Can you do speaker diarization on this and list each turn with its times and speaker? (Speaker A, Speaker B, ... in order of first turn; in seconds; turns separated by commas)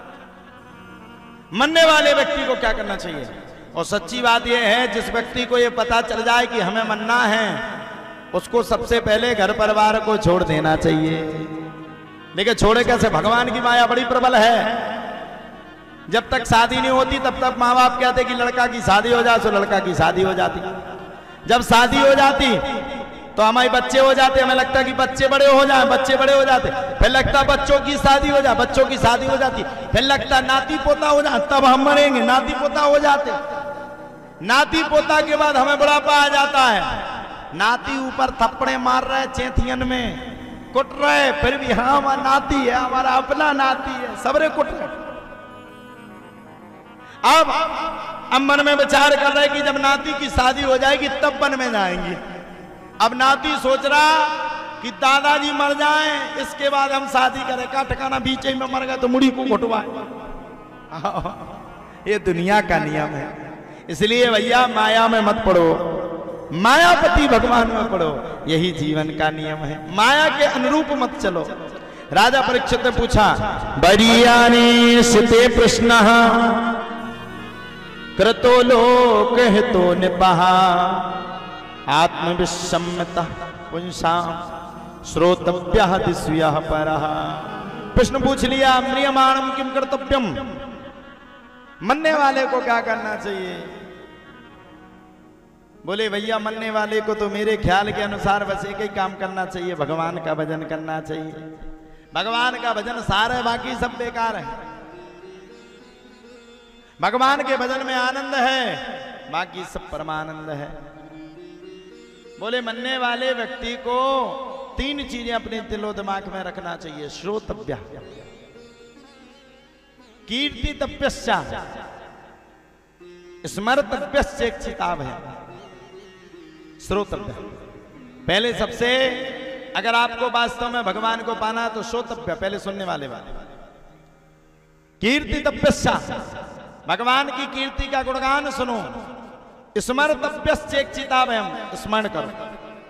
Speaker A: 1.5-7.8, Speaker A: 8.3-11.6, Speaker A: 12.3-15.0, Speaker A: 16.1-20.7, Speaker A: 21.4-33.4, Speaker A: 34.4-45.0, Speaker A: 47.2-52.2, Speaker A: 53.0-60.1, Speaker A: 60.9-66.0, Speaker A: 66.5-71.5, Speaker A: 72.1-76.7, Speaker A: 78.2-81.2, Speaker A: 81.9-84.5, Speaker A: 85.0-90.5, Speaker A: 91.8-93.7, Speaker A: 95.8-101.5, Speaker A: 102.1-104.6, Speaker A: 107.0-110.8, Speaker A: 112.4-118.0, Speaker A: 120.2-121.6, Speaker A: 123.4-125.2, Speaker A: 126.8-127.5, Speaker A: 128.2-133.3, Speaker A: 135.0-136.2, Speaker A: 136.8-139.0, Speaker A: 139.8-142.4